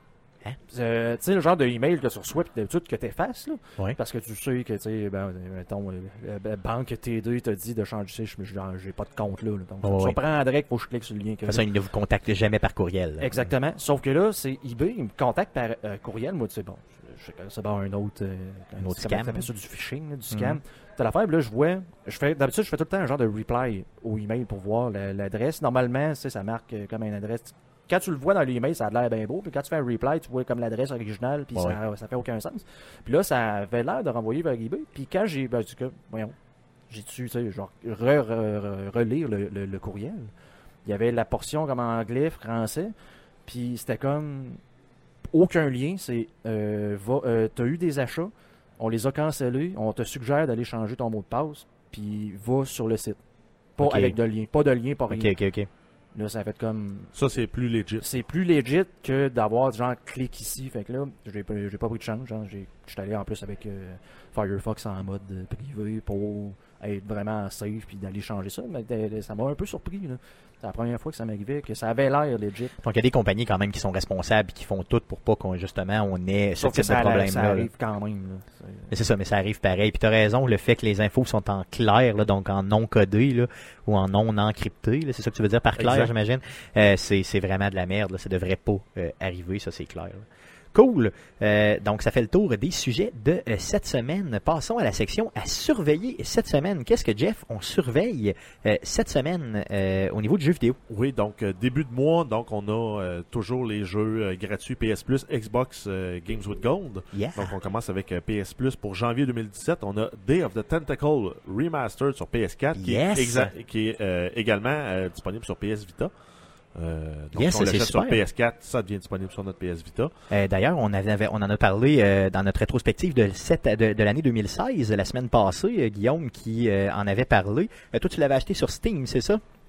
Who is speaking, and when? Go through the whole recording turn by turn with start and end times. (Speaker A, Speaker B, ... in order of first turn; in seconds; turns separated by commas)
Speaker A: 0.7-11.7, Speaker B: 9.8-10.2, Speaker B: 11.5-13.4, Speaker A: 13.2-36.4, Speaker B: 18.8-19.5, Speaker B: 20.3-20.6, Speaker A: 36.9-40.3, Speaker A: 40.9-42.9, Speaker A: 43.5-44.6, Speaker A: 45.3-53.2, Speaker A: 53.8-55.3, Speaker B: 53.8-54.1, Speaker B: 55.1-55.7, Speaker A: 56.1-57.1, Speaker C: 57.1-58.2, Speaker A: 58.0-72.8, Speaker B: 72.8-77.7, Speaker A: 76.6-78.9, Speaker B: 78.9-100.8, Speaker C: 85.8-86.1, Speaker C: 100.9-116.1, Speaker B: 107.1-107.6, Speaker B: 112.8-113.5, Speaker C: 116.8-120.1, Speaker B: 117.3-118.2, Speaker B: 120.3-129.4